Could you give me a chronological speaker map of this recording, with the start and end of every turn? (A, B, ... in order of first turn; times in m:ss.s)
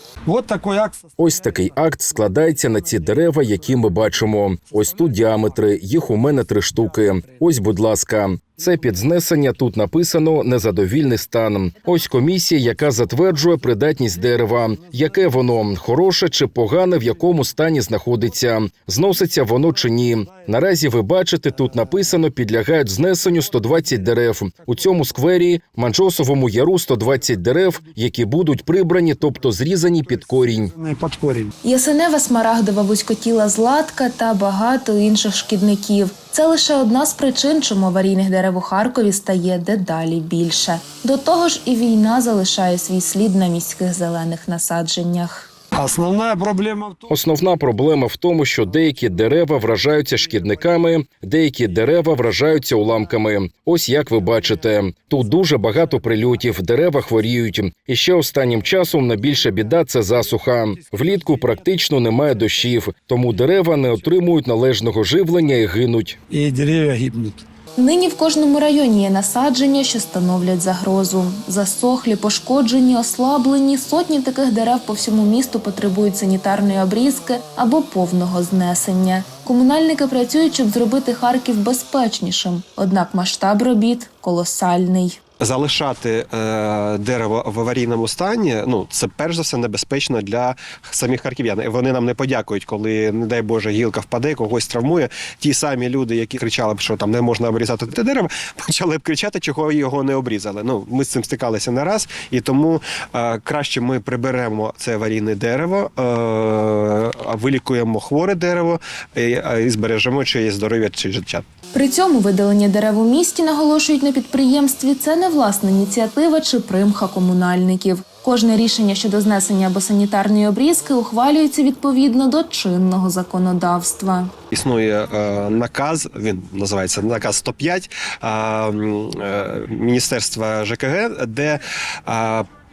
0:00.3-0:01.1 A
0:01.2-0:30.7 B
0:30.7-0:31.5 A
0:31.6-0:45.5 C
0:45.8-0:47.1 A
0:47.1-1:06.2 B
1:06.3-1:07.4 A
1:07.8-1:25.2 C
1:25.4-1:51.5 D
1:51.7-2:04.3 C
2:04.5-2:12.5 D